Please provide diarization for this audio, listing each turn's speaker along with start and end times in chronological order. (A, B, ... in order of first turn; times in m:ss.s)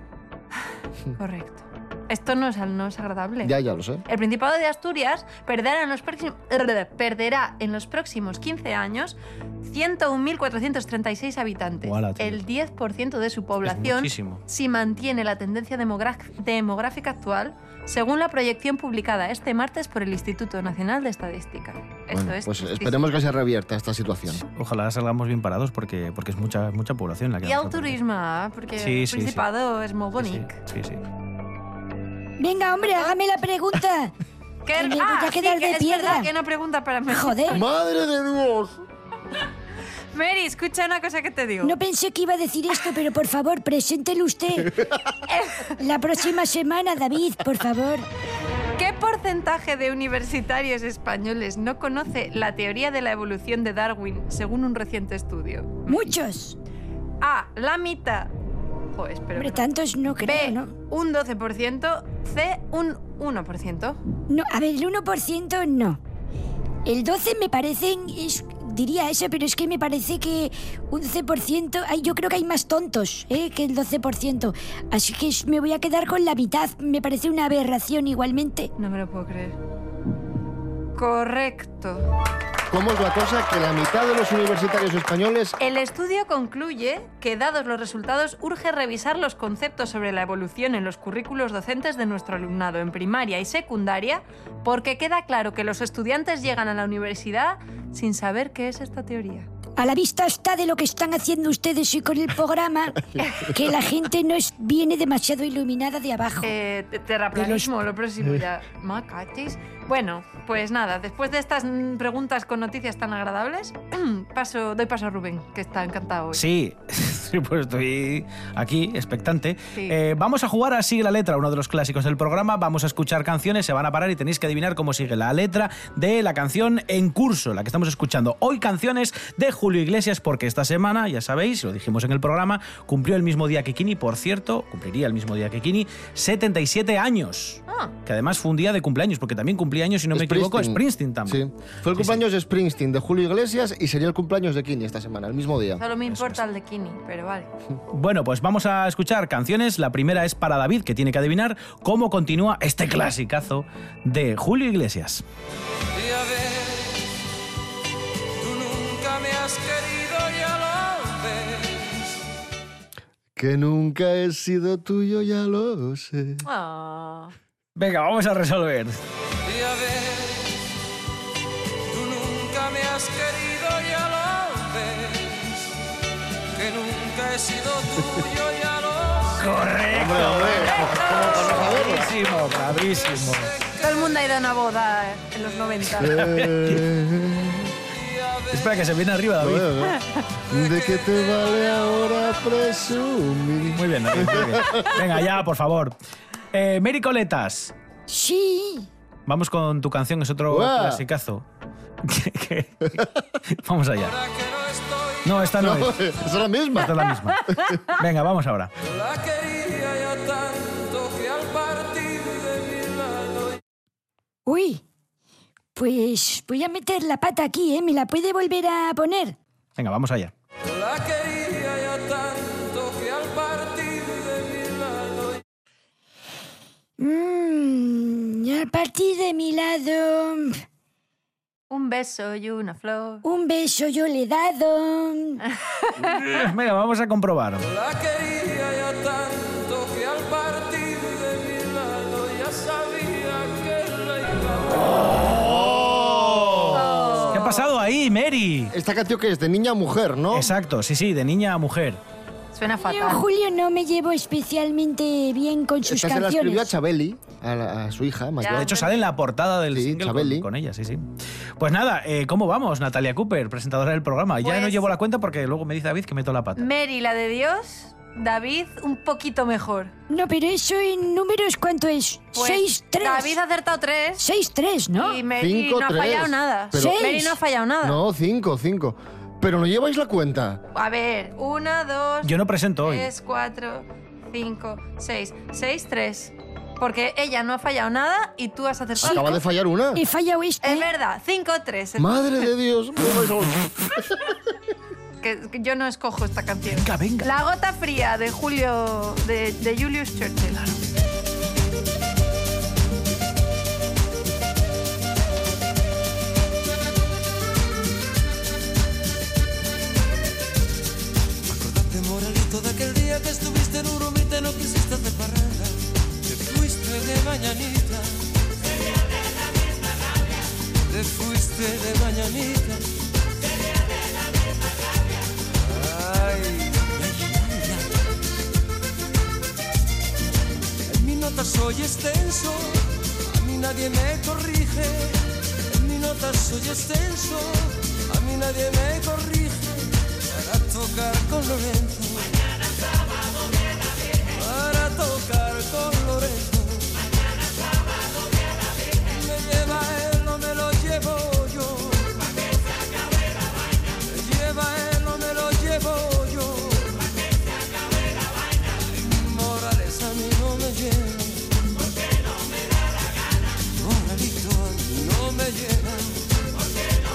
0:01.2-0:03.5 A
0:03.4-0:04.0 B
0:04.1-0:23.0 A
0:11.8-0:12.4 C
0:13.6-0:14.4 C
0:22.1-0:24.4 B
0:24.3-0:28.0 C
0:27.4-0:30.6 A
0:28.8-0:29.4 C
0:30.2-0:31.0 C
0:32.4-0:34.1 D
0:34.6-0:37.6 A
0:34.7-0:36.3 D
0:37.1-0:37.6 D
0:37.5-0:38.8 B
0:40.1-0:41.8 A
0:41.6-0:44.8 D
0:45.3-0:45.8 A
0:45.8-0:48.1 D
0:48.8-0:56.1 A
0:55.8-0:56.6 D
0:57.2-0:58.3 A
0:58.9-0:59.6 A
0:59.4-1:00.7 D
1:00.2-1:04.0 A
1:04.3-1:06.0 D
1:06.8-1:18.7 D
1:18.8-1:19.6 A
1:20.9-1:22.0 A
1:22.7-1:25.5 B
1:25.6-1:39.5 A
1:39.8-1:46.5 D
1:46.4-1:56.4 A
1:47.3-1:47.7 D
1:56.3-2:22.2 C
2:20.1-2:25.8 B
2:25.8-2:27.5 A
2:27.9-2:35.2 C
2:35.9-2:37.0 E
2:38.4-2:42.2 E
2:43.4-2:46.4 B
2:46.4-2:47.3 A
2:47.8-2:49.0 C
2:49.4-2:50.6 E
2:51.9-2:55.7 E
2:56.5-2:59.5 E
2:59.4-3:03.5 C
2:59.9-3:02.1 B
3:00.6-3:01.5 A
3:03.4-3:03.8 E
3:03.8-3:06.2 A
3:06.0-3:07.7 B
3:06.0-3:06.8 C
3:07.9-3:08.8 E
3:08.5-3:09.7 C
3:09.4-3:10.0 B
3:09.9-3:10.3 A
3:10.5-3:15.1 B
3:10.8-3:11.4 E
3:13.7-3:15.9 C
3:16.5-3:17.7 C
3:18.1-3:18.9 D
3:19.3-3:21.4 C
3:20.5-3:21.0 B
3:22.0-3:24.2 C
3:24.0-3:26.1 E
3:25.2-3:26.0 C
3:25.6-3:27.0 B
3:26.7-3:28.7 C
3:27.5-3:27.8 B
3:28.8-3:33.6 E
3:34.5-3:34.8 D
3:35.8-3:39.4 D
3:39.8-3:40.3 C
3:40.6-3:45.4 E
3:47.0-3:50.6 D
3:51.7-3:53.2 A
3:53.2-3:55.4 D
3:55.5-3:56.2 A
3:56.0-3:57.7 C
3:57.6-4:05.2 E
4:05.2-4:08.7 C
4:05.2-4:07.3 B
4:06.7-4:07.6 A
4:08.7-4:10.5 B
4:10.3-4:12.0 C
4:12.5-4:13.2 A
4:12.8-4:16.7 D
4:15.8-4:18.8 B
4:18.4-4:19.0 A
4:18.5-4:21.1 C
4:19.7-4:20.5 B
4:21.6-4:26.6 C
4:24.4-4:24.9 A
4:26.6-4:29.9 A
4:30.1-4:33.4 D
4:32.3-4:34.2 A
4:34.2-4:35.2 D
4:35.0-4:38.0 A
4:35.4-4:37.0 B
4:36.7-4:37.4 D
4:37.8-4:40.6 B
4:40.7-4:49.4 A
4:42.2-4:43.1 C
4:49.0-4:50.0 B
4:49.9-4:50.9 D
4:50.6-4:52.2 A
4:52.0-4:54.3 B
4:55.2-5:00.7 A
4:56.7-4:57.3 C
5:11.4-5:18.2 E
5:20.9-5:22.8 E
5:25.6-5:27.9 E
5:30.9-5:42.4 E
5:44.3-5:47.0 E
5:49.0-5:52.3 E
5:54.1-5:57.1 E
5:58.9-6:01.5 E
6:03.7-6:06.2 E